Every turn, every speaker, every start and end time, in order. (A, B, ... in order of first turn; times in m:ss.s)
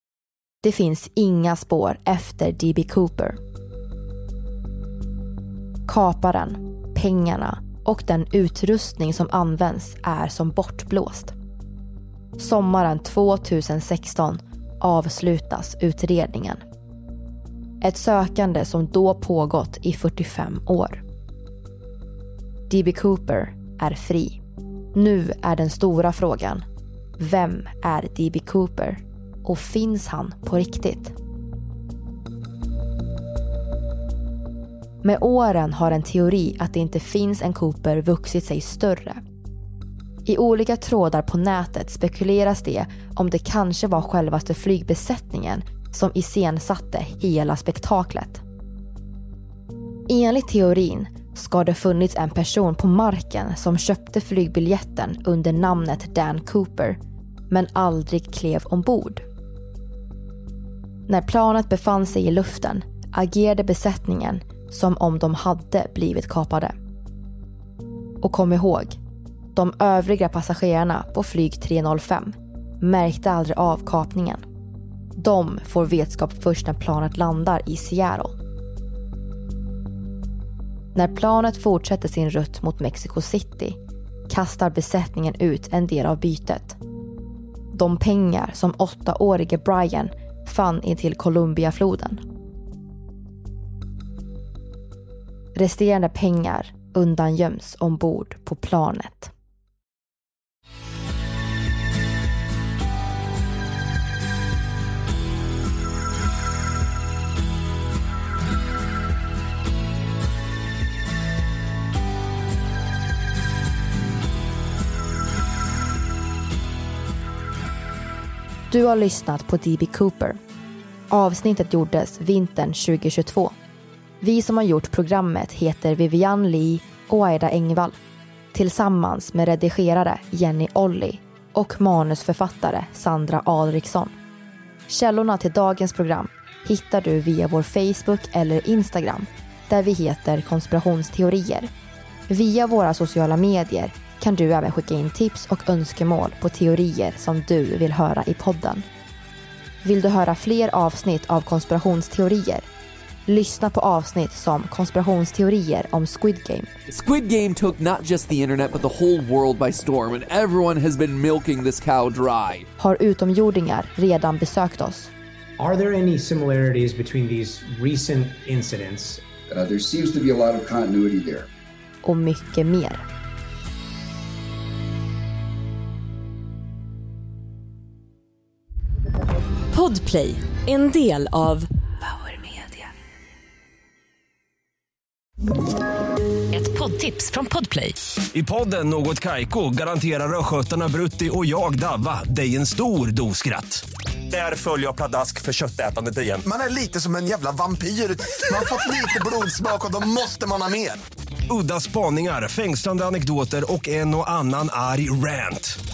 0:00.6-0:03.4 A
0:05.9-0:11.3 A
0:12.4-0:16.6 A
0:17.8-0:21.0 A
0:22.7-0:24.4 A
0:24.9-0:26.6 A
0:27.2-0:31.1 A
0:35.0-0:39.2 A
0:40.2-0:48.4 A
0:50.1-0:57.0 A
0:57.5-0:59.2 A
1:01.1-1:06.7 A
1:08.2-1:09.0 A
1:09.5-1:14.4 A
1:15.2-1:18.4 A
1:20.9-1:23.8 A
1:24.3-1:26.8 A
1:27.7-1:32.2 A
1:35.5-1:39.3 A
1:58.7-2:00.4 A
2:01.1-2:03.5 A
2:04.2-2:08.0 A
2:08.5-2:14.1 A
2:14.9-2:21.7 A
2:22.3-2:28.8 A
2:29.8-2:32.7 A
2:33.3-2:36.7 A
2:36.9-2:42.7 B
2:42.8-2:45.1 A
2:45.6-2:49.2 C
2:49.5-2:51.5 D
2:52.0-2:53.0 A
2:59.7-3:02.9 E
3:06.5-3:08.0 E
3:08.3-3:16.4 F
3:16.4-3:21.0 G
3:21.5-3:25.8 F